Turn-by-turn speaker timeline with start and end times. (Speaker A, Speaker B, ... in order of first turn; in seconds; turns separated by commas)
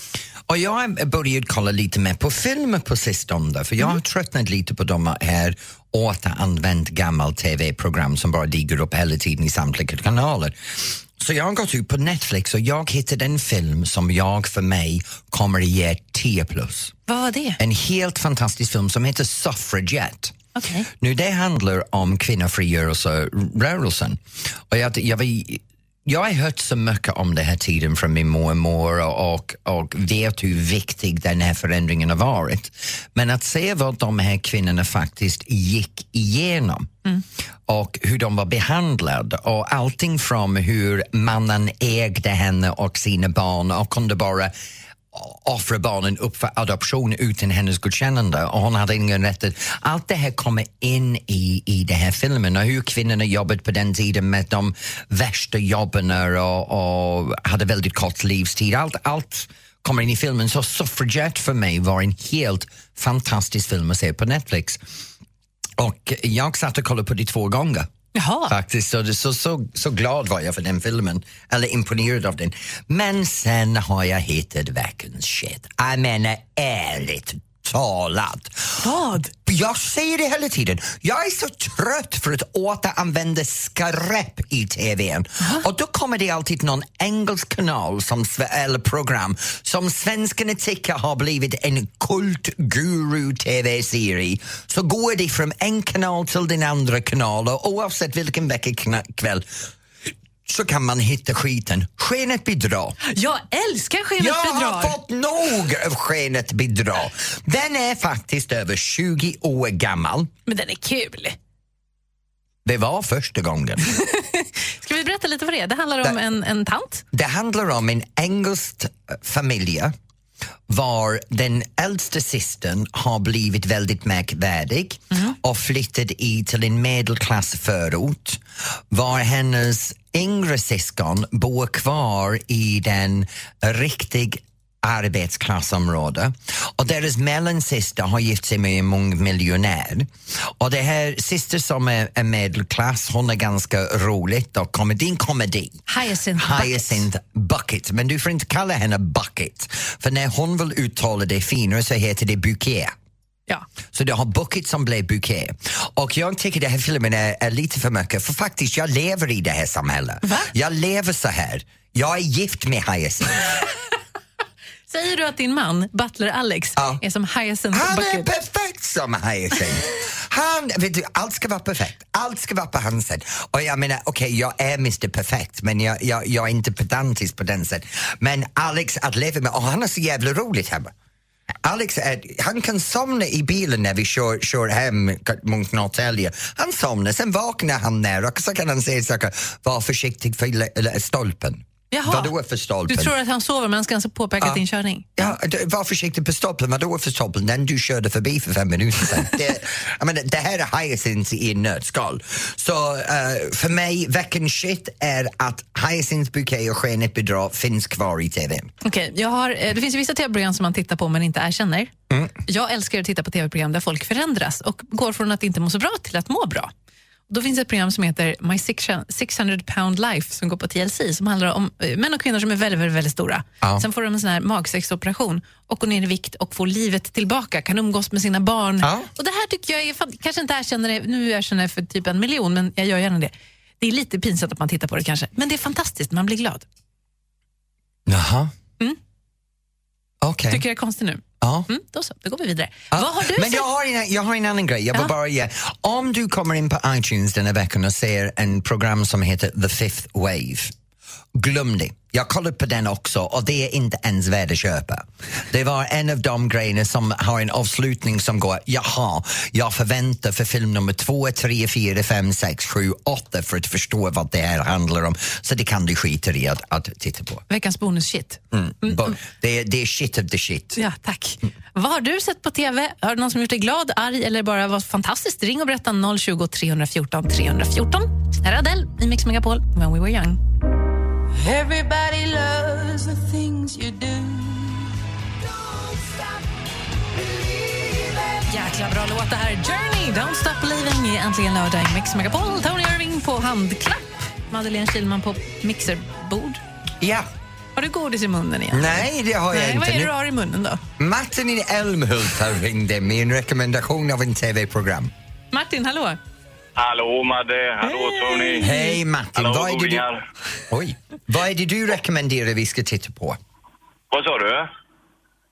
Speaker A: 0.5-16.9, Speaker B: 17.1-17.6, Speaker A: 17.6-20.4, Speaker B: 20.6-20.9, Speaker A: 20.9-36.9, Speaker A: 37.7-44.5, Speaker A: 45.1-64.8, Speaker A: 65.8-67.9, Speaker B: 68.2-68.5, Speaker A: 68.5-99.5, Speaker B: 78.8-79.3, Speaker A: 100.5-103.0, Speaker B: 103.1-105.0, Speaker A: 104.2-110.3, Speaker B: 110.5-111.4, Speaker A: 112.7-113.8, Speaker B: 114.0-117.0, Speaker A: 117.1-119.9, Speaker A: 120.7-145.8, Speaker B: 145.9-147.1, Speaker A: 146.4-152.9, Speaker A: 153.9-163.6, Speaker B: 160.2-160.5, Speaker B: 164.9-168.3, Speaker A: 166.8-167.0, Speaker A: 167.7-180.9, Speaker A: 181.6-193.2, Speaker B: 191.9-192.3, Speaker B: 192.9-195.3, Speaker A: 195.2-208.7, Speaker B: 208.8-211.9, Speaker B: 212.5-216.7, Speaker B: 217.3-236.7, Speaker A: 228.8-229.1, Speaker A: 238.1-238.5, Speaker A: 240.2-240.7, Speaker B: 240.5-243.7, Speaker A: 241.4-241.7, Speaker A: 242.9-250.7, Speaker A: 251.3-267.4, Speaker B: 267.5-269.1, Speaker A: 268.5-270.8, Speaker B: 270.8-280.4, Speaker C: 281.4-284.9, Speaker C: 285.7-286.3, Speaker C: 287.2-288.2, Speaker B: 288.5-296.6, Speaker A: 297.0-297.3, Speaker B: 297.8-300.8, Speaker A: 298.7-300.1, Speaker A: 301.0-305.1, Speaker B: 305.5-306.2, Speaker D: 306.8-308.7, Speaker B: 308.0-309.0, Speaker A: 308.6-310.1, Speaker D: 309.4-310.2, Speaker A: 310.7-313.4, Speaker D: 314.1-314.7